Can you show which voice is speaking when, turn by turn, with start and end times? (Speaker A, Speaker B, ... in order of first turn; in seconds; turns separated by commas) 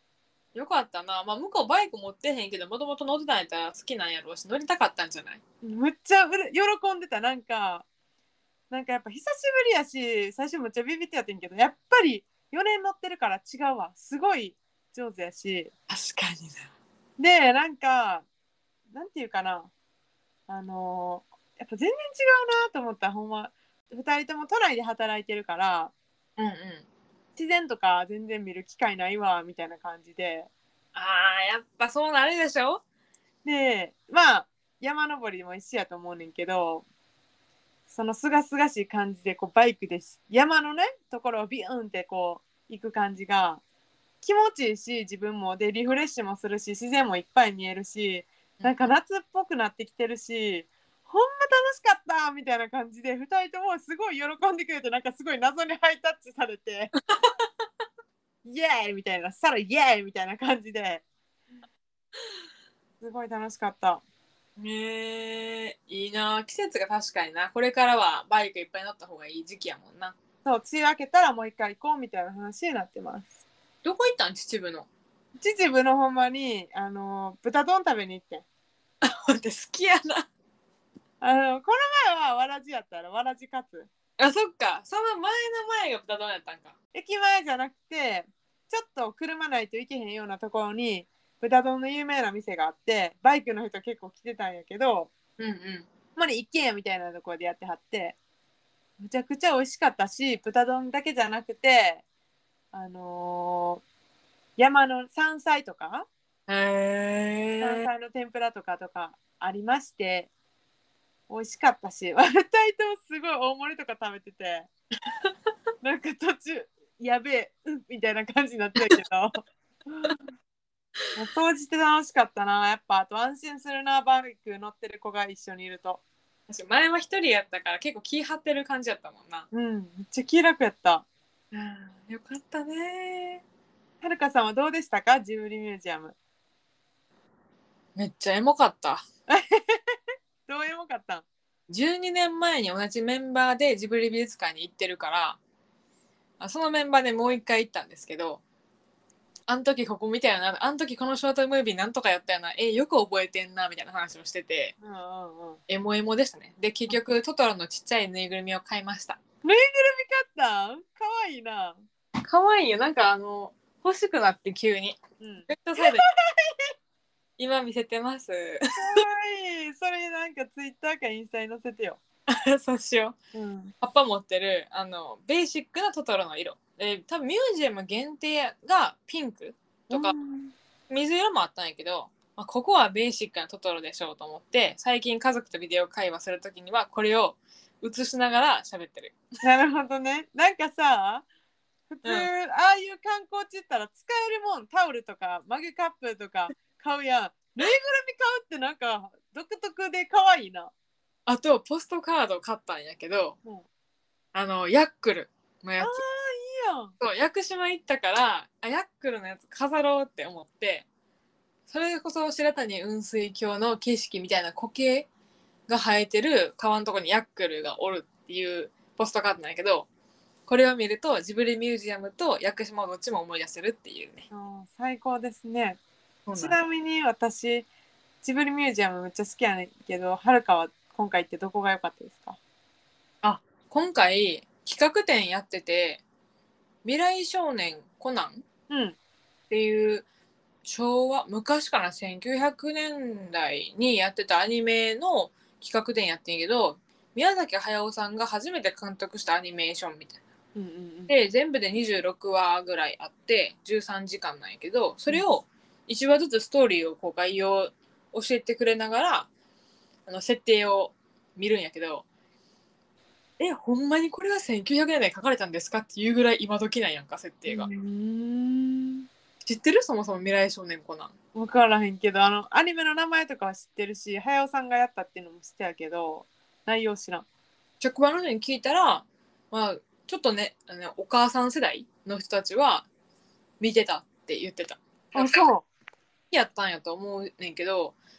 Speaker A: 0.5-5.4, Speaker B: 5.6-7.8, Speaker B: 8.7-15.7, Speaker A: 15.9-16.7, Speaker B: 17.2-18.2, Speaker B: 18.9-19.7, Speaker B: 20.5-25.9, Speaker A: 26.4-26.9, Speaker B: 27.4-30.5, Speaker A: 30.9-32.8, Speaker B: 33.4-36.9, Speaker B: 37.9-43.6, Speaker B: 44.2-56.9, Speaker B: 58.4-61.0, Speaker B: 63.0-64.0, Speaker A: 64.6-70.2, Speaker B: 70.4-73.4, Speaker A: 73.8-74.9, Speaker B: 75.4-78.4, Speaker A: 79.0-80.3, Speaker B: 81.2-83.9, Speaker A: 84.2-86.8, Speaker B: 86.9-95.1, Speaker A: 95.4-95.9, Speaker B: 96.2-98.2, Speaker B: 99.0-102.0, Speaker B: 102.7-103.8, Speaker B: 104.6-106.1, Speaker A: 106.5-107.9, Speaker B: 107.6-110.3, Speaker B: 111.3-114.7, Speaker B: 115.8-120.2, Speaker B: 121.1-126.0, Speaker A: 126.5-129.5, Speaker B: 129.5-131.0, Speaker A: 131.5-133.4, Speaker B: 134.0-136.1, Speaker A: 137.9-139.0, Speaker B: 139.3-139.9, Speaker B: 140.5-141.2, Speaker A: 141.7-145.4, Speaker A: 146.4-148.4, Speaker A: 149.5-154.7, Speaker B: 154.8-155.6, Speaker A: 155.7-159.2, Speaker B: 159.4-161.8, Speaker A: 162.2-166.1, Speaker B: 165.2-166.7, Speaker A: 167.4-169.0, Speaker B: 168.8-172.0, Speaker A: 172.3-173.2, Speaker B: 173.3-173.7, Speaker A: 173.8-180.2, Speaker B: 179.9-180.5, Speaker A: 180.9-189.2, Speaker B: 189.4-191.2, Speaker B: 191.9-200.7, Speaker A: 201.2-203.4, Speaker A: 204.3-206.0, Speaker B: 205.8-206.9, Speaker A: 207.0-210.8, Speaker A: 211.7-215.1, Speaker A: 215.7-219.9, Speaker A: 220.5-224.3, Speaker B: 224.3-225.8, Speaker A: 226.2-226.6, Speaker B: 226.3-227.7, Speaker B: 228.2-232.4, Speaker A: 233.2-236.0, Speaker A: 236.8-238.4, Speaker B: 238.7-239.0, Speaker A: 239.5-240.1, Speaker A: 240.6-250.2, Speaker B: 250.5-251.1, Speaker A: 251.1-259.3, Speaker A: 260.1-262.0, Speaker A: 263.4-267.7, Speaker B: 267.4-269.1, Speaker A: 269.4-271.1, Speaker B: 271.3-277.2, Speaker A: 277.8-282.9, Speaker A: 283.6-285.5, Speaker B: 285.1-285.7, Speaker A: 286.3-287.9